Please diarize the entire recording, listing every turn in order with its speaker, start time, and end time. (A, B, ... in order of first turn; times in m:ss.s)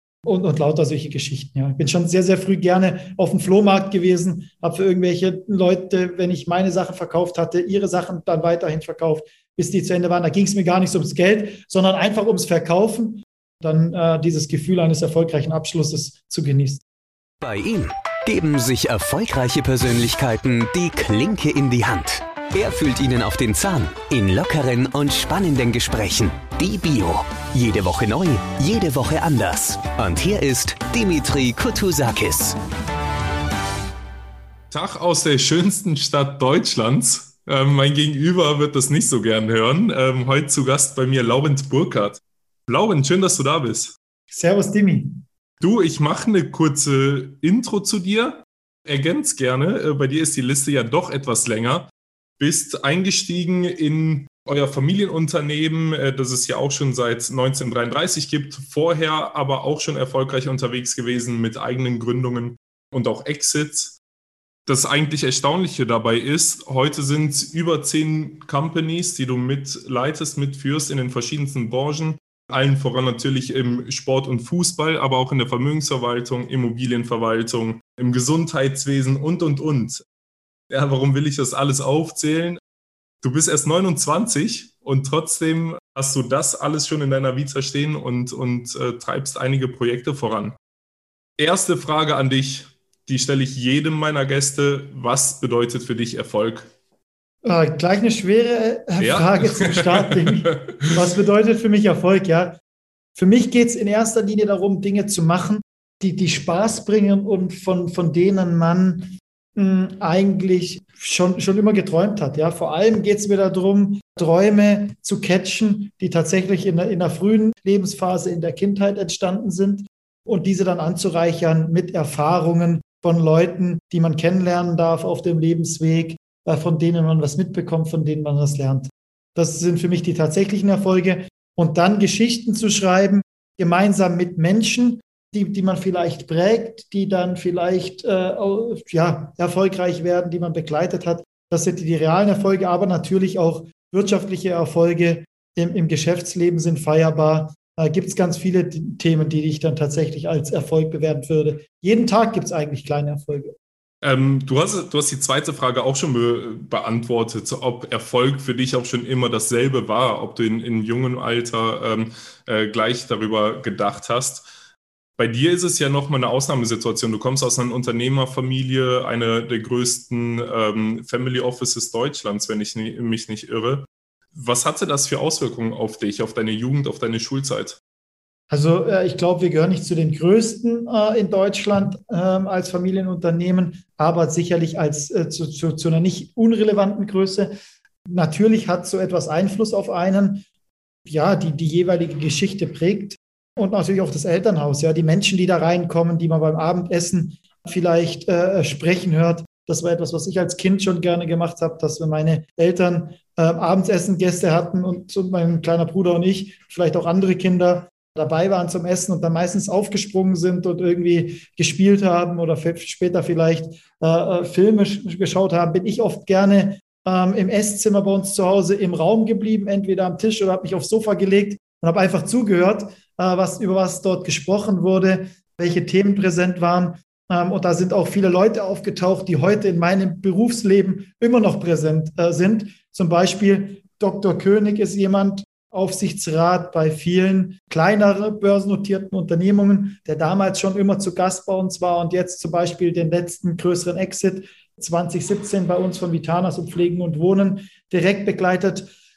0:00.2-0:16.8 A
0:17.4-0:32.6 B
0:34.7-0:44.0 C
0:44.3-0:45.2 A
0:45.6-0:51.9 C
0:52.4-1:04.0 C
1:04.7-1:20.0 C
1:20.7-1:22.6 C
1:23.2-1:30.6 C
1:31.4-1:36.7 C
1:37.4-1:42.6 A
1:39.0-1:40.9 C
1:43.2-2:33.5 A
2:34.0-2:44.4 C
2:45.2-2:57.8 C
2:58.5-3:07.5 A
3:08.1-3:10.4 A
3:11.1-4:08.9 A